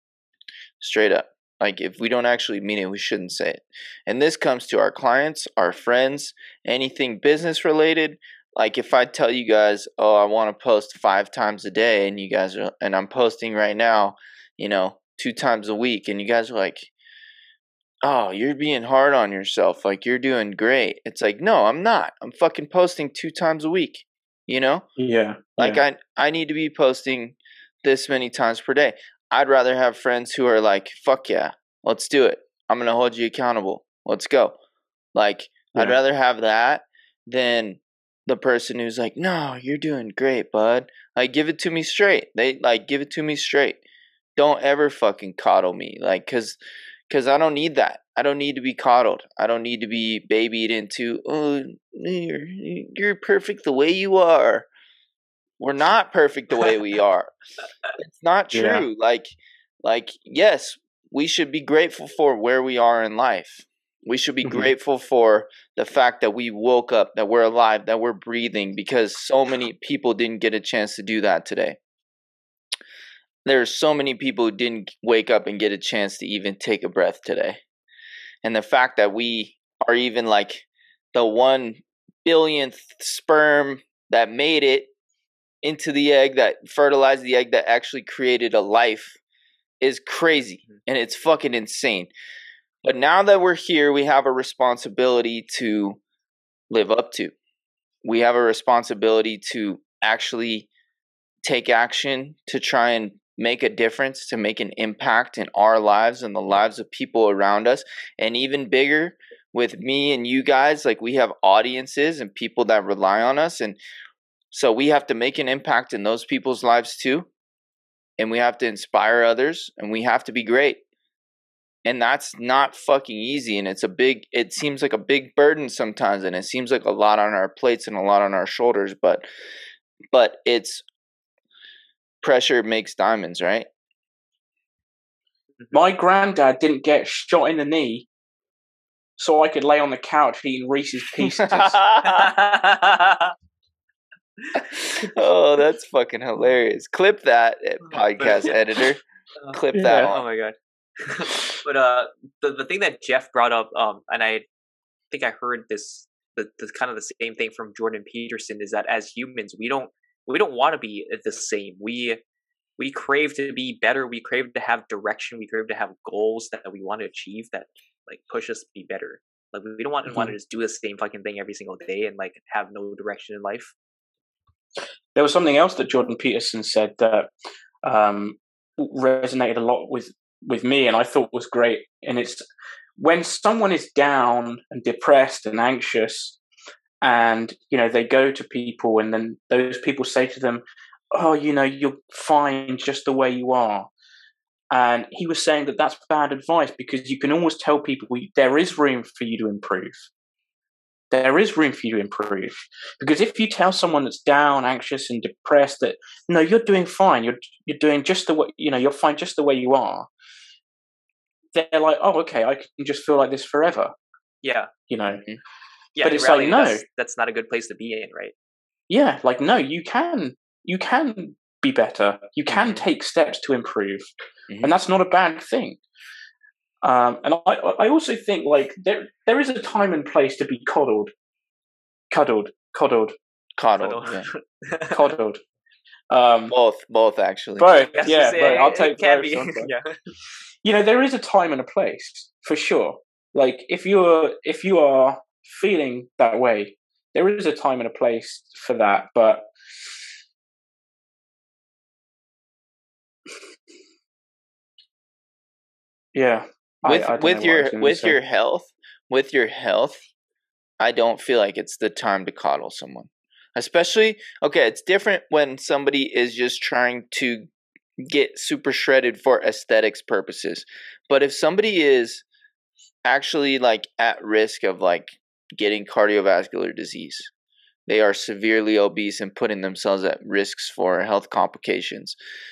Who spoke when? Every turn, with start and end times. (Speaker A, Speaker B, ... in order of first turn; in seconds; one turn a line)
Speaker A: 0.8-16.9
Speaker A: 18.0-24.9
Speaker B: 25.0-25.8
Speaker A: 25.6-34.5
Speaker A: 35.1-43.8
Speaker A: 44.4-46.6
Speaker A: 47.1-54.7
Speaker A: 55.6-57.3
Speaker A: 58.0-71.8
Speaker B: 58.5-58.9
Speaker A: 73.5-77.6
Speaker A: 78.4-84.9
Speaker A: 85.6-89.2
Speaker A: 89.8-92.1
Speaker A: 92.8-96.0
Speaker A: 96.7-97.3
Speaker A: 98.0-100.7
Speaker A: 101.5-113.8
Speaker A: 114.5-117.3
Speaker A: 118.2-120.8
Speaker A: 121.8-129.2
Speaker A: 130.1-130.8
Speaker A: 132.2-133.7
Speaker B: 135.7-138.1
Speaker B: 139.2-141.8
Speaker A: 141.2-142.3
Speaker C: 142.0-143.3
Speaker C: 144.4-145.2
Speaker A: 144.6-149.0
Speaker C: 147.9-148.6
Speaker C: 149.4-154.5
Speaker A: 149.5-150.2
Speaker B: 149.7-150.1
Speaker C: 155.1-162.2
Speaker C: 162.8-173.7
Speaker B: 170.1-170.3
Speaker B: 175.2-177.3
Speaker B: 177.8-182.4
Speaker B: 183.0-186.4
Speaker B: 187.0-190.6
Speaker B: 191.1-193.9
Speaker B: 194.7-200.1
Speaker B: 201.1-210.1
Speaker B: 211.5-213.9
Speaker C: 214.4-214.7
Speaker B: 214.9-215.2
Speaker A: 215.1-215.4
Speaker C: 216.0-218.3
Speaker B: 216.0-216.8
Speaker B: 218.9-224.1
Speaker A: 222.5-222.8
Speaker A: 224.5-224.8
Speaker B: 224.6-225.8
Speaker B: 226.8-231.1
Speaker B: 232.1-233.2
Speaker A: 233.6-234.3
Speaker C: 233.8-235.1
Speaker B: 234.9-235.4
Speaker B: 236.1-236.5
Speaker A: 236.5-238.6
Speaker B: 237.6-239.7
Speaker C: 237.9-239.9
Speaker B: 240.6-249.5
Speaker B: 256.1-258.2
Speaker A: 256.9-260.0
Speaker A: 260.8-267.5
Speaker A: 268.0-272.2
Speaker A: 273.1-277.3
Speaker A: 277.9-282.2